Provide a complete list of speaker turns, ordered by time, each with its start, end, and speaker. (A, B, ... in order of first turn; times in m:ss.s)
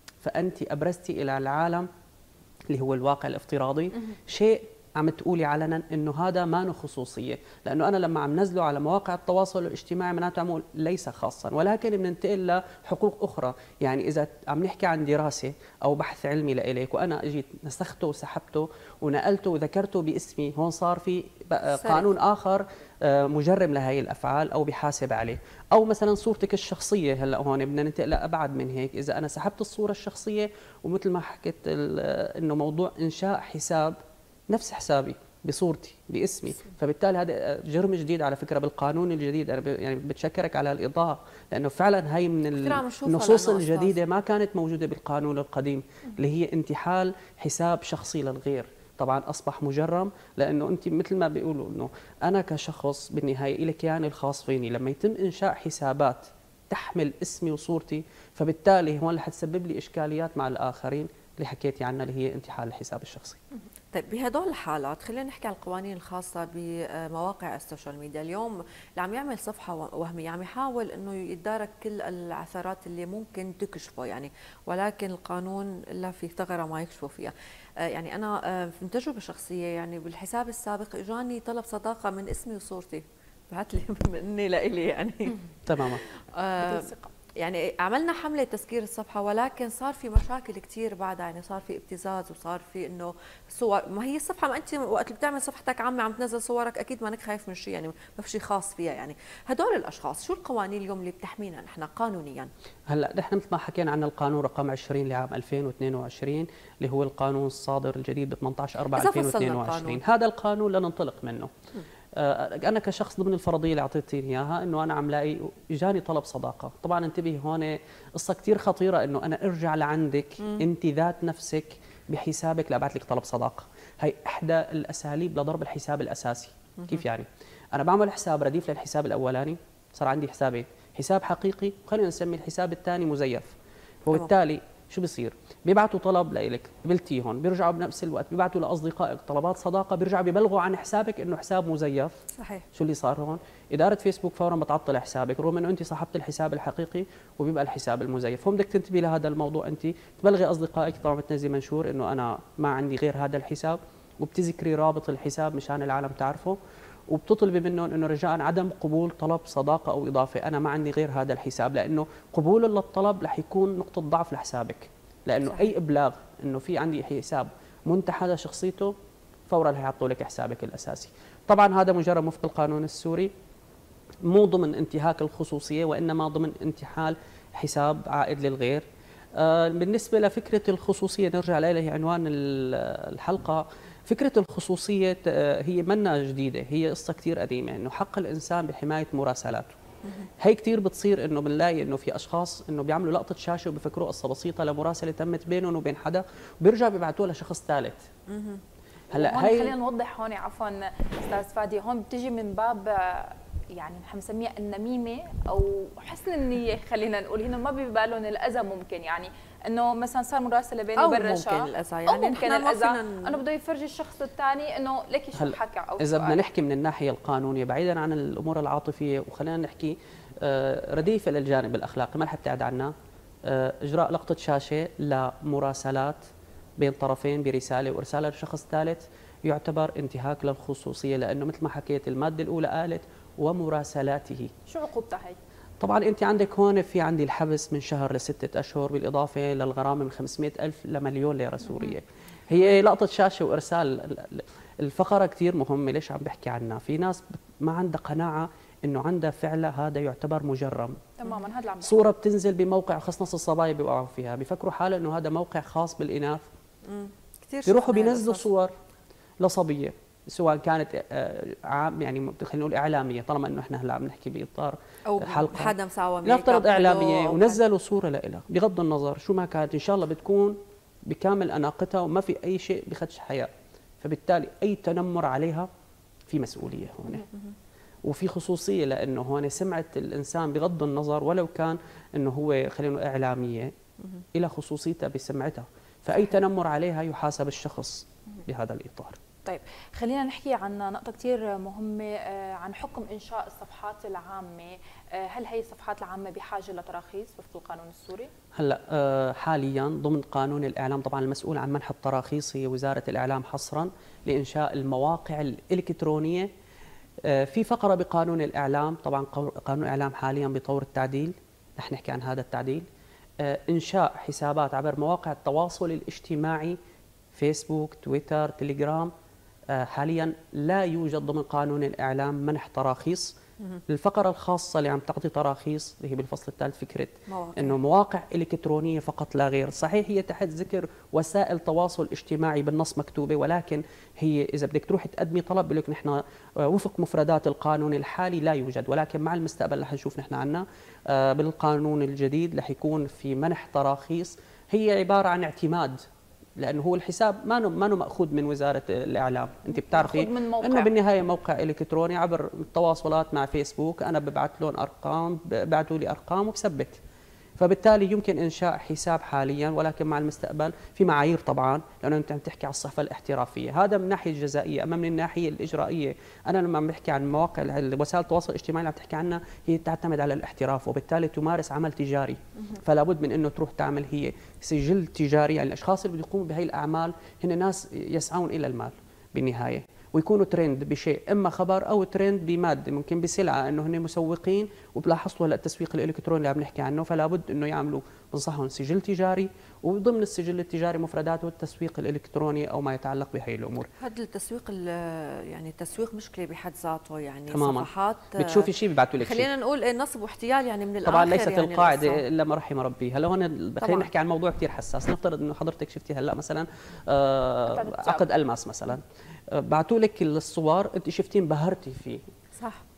0:00.2-0:01.9 A
0:02.7-0:34.0 A
0:21.7-0:22.0 B
0:34.5-1:03.4 A
0:42.5-0:44.0 B
1:03.9-1:42.5 B
1:25.7-1:26.0 A
1:26.6-1:27.1 C
1:42.9-1:51.5 A
1:48.9-1:50.0 B
1:52.2-2:22.1 A
2:06.8-2:07.0 B
2:22.4-2:22.6 B
2:22.7-2:36.6 A
2:37.1-2:48.9 A
2:49.5-2:53.3 A
2:54.2-2:58.8 A
2:59.4-3:09.7 A
3:10.4-3:18.1 A
3:18.3-3:18.6 B
3:19.1-3:19.7 A
3:19.1-3:36.4 C
3:31.0-3:33.4 B
3:35.3-3:42.9 A
3:43.4-3:46.2 A
3:46.8-3:54.5 A
3:54.7-3:55.4 C
3:55.8-4:11.0 A
4:11.2-4:12.0 C
4:11.8-4:16.4 A
4:16.8-4:18.5 B
4:17.6-4:18.7 A
4:19.4-4:33.5 A
4:25.1-4:27.6 B
4:34.0-4:35.7 A
4:36.3-4:37.2 A
4:38.0-4:43.7 A
4:44.3-4:49.2 A
4:49.4-4:58.3 C
4:58.6-5:06.5 A
5:07.2-5:12.8 A
5:13.4-5:16.8 A
5:17.3-5:19.1 A
5:19.7-5:23.4 A
5:23.9-5:46.0 A
5:27.3-5:27.8 B
5:46.6-5:57.0 A
5:49.7-5:50.9 C
5:57.6-6:33.9 A
6:34.0-6:42.2 B
6:37.5-6:39.5 A
6:41.0-6:52.2 A
6:43.8-6:44.1 B
6:47.7-6:48.3 C
6:52.6-6:52.8 B